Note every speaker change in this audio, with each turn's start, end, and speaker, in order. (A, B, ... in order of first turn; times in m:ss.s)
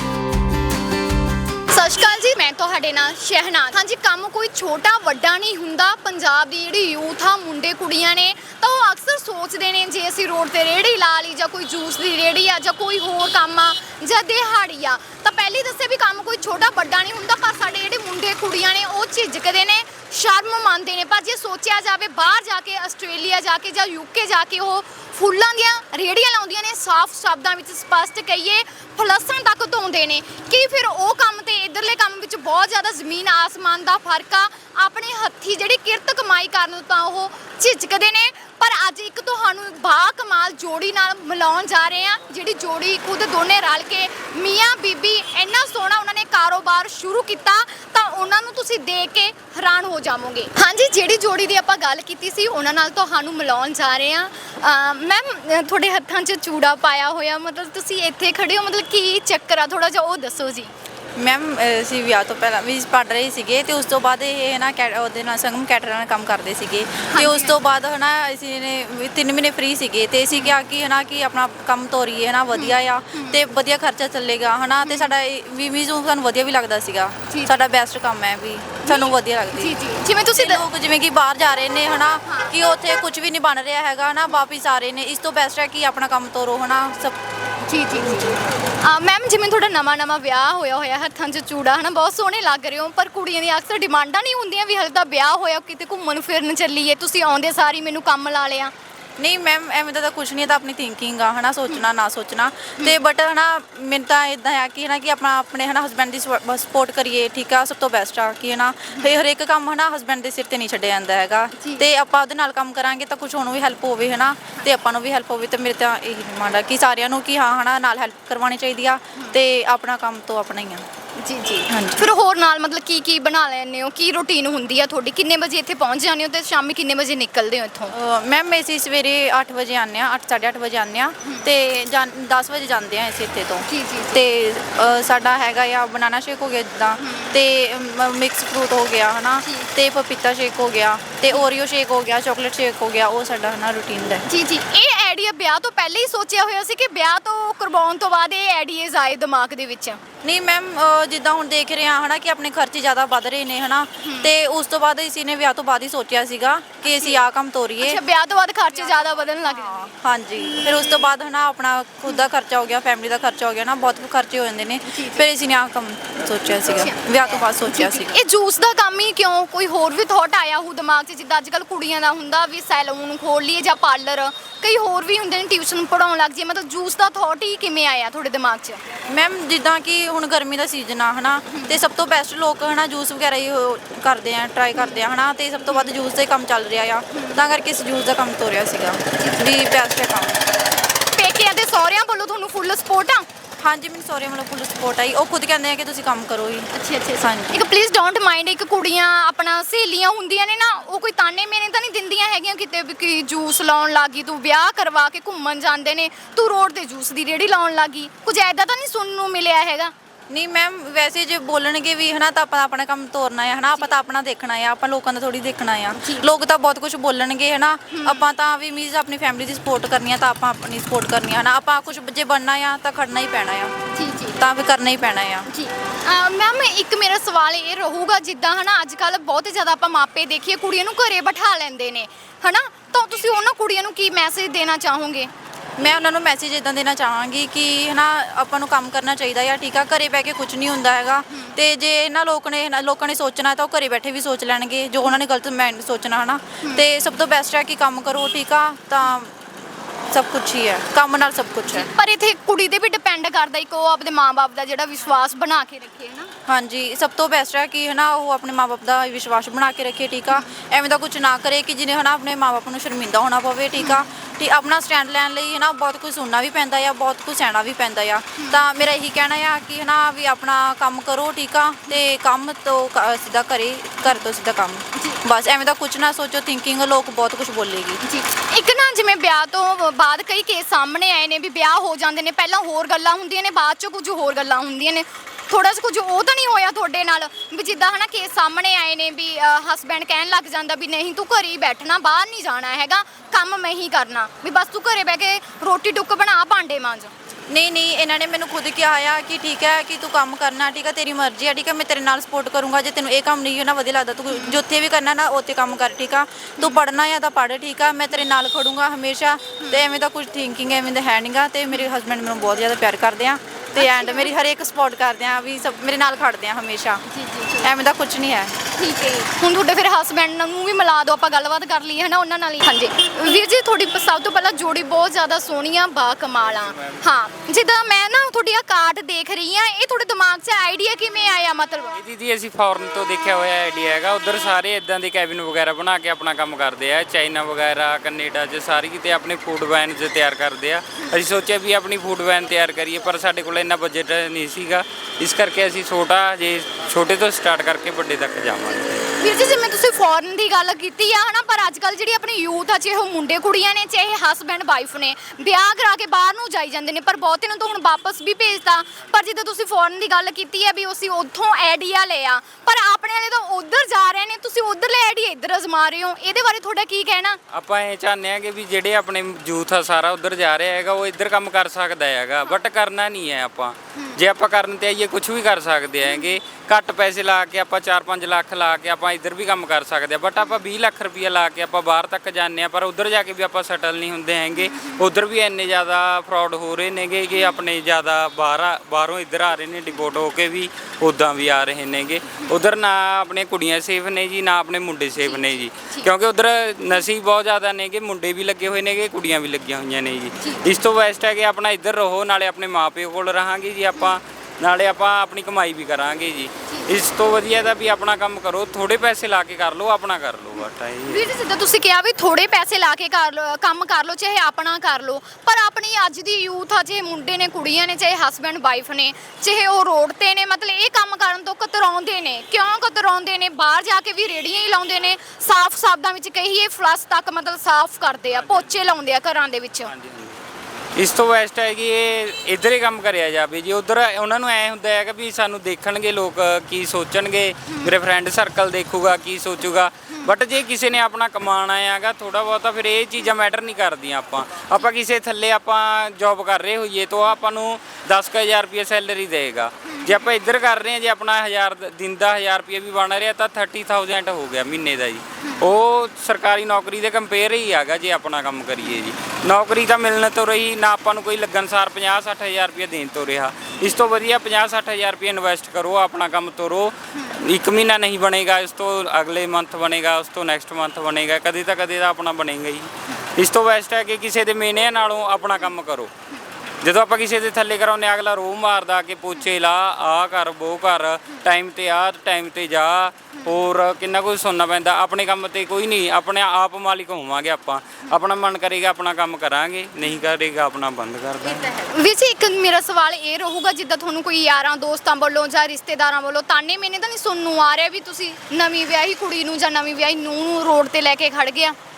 0:01.7-1:00.7 A
1:01.2-1:19.8 B
1:07.1-1:07.6 A
1:10.3-1:10.6 A
1:12.5-1:13.4 A
1:14.8-1:15.1 A
1:17.3-1:17.6 A
1:18.8-1:20.6 A
1:20.3-1:27.2 B
1:22.2-1:22.6 A
1:27.7-1:38.7 A
1:39.2-2:00.8 B
1:51.6-1:51.8 A
2:01.2-2:07.9 A
2:01.7-2:02.0 B
2:07.9-2:24.2 B
2:11.2-2:11.5 A
2:13.7-2:14.2 A
2:17.0-2:17.4 A
2:19.4-2:19.7 A
2:24.2-2:30.0 A
2:30.2-2:38.0 B
2:34.0-2:34.3 A
2:36.8-2:37.2 A
2:37.8-2:39.9 A
2:39.4-2:48.2 B
2:44.8-2:45.3 A
2:46.6-2:58.8 A
2:59.1-3:10.4 B
3:01.5-3:01.8 A
3:04.8-3:05.1 A
3:07.1-3:07.4 A
3:09.1-3:09.5 A
3:11.1-3:13.2 A
3:13.6-3:17.6 B
3:16.7-3:29.9 A
3:30.3-3:43.7 B
3:36.0-3:36.3 A
3:37.9-3:38.3 A
3:43.9-3:44.4 A
3:44.4-3:45.5 B
3:45.5-3:55.3 A
3:55.8-4:09.3 B
4:10.1-4:11.9 B
4:11.7-4:16.3 A
4:16.5-4:38.0 B
4:23.8-4:24.0 A
4:35.0-4:35.2 A
4:38.0-4:57.1 A
4:57.5-5:17.0 B
5:04.3-5:04.6 A
5:09.6-5:09.9 A
5:13.7-5:14.3 A
5:17.1-5:17.7 A
5:17.6-5:18.5 B
5:18.8-5:32.0 A
5:26.7-5:27.0 C
5:32.0-5:49.1 C
5:49.2-6:07.4 A
6:07.5-6:51.3 C
6:14.0-6:14.2 A
6:16.0-6:16.3 A
6:24.6-6:25.0 A
6:27.3-6:27.6 A
6:35.2-6:36.1 A
6:40.4-6:40.8 A
6:46.7-6:46.9 A
6:51.1-7:09.9 A
7:08.3-7:08.7 C
7:09.9-7:10.4 C
7:11.0-7:56.1 C
7:17.7-7:18.0 A
7:29.9-7:30.3 A
7:35.4-7:35.7 A
7:47.1-7:47.4 A
7:56.8-8:11.6 C
8:03.3-8:03.7 A
8:10.0-8:10.3 A
8:11.4-8:21.8 A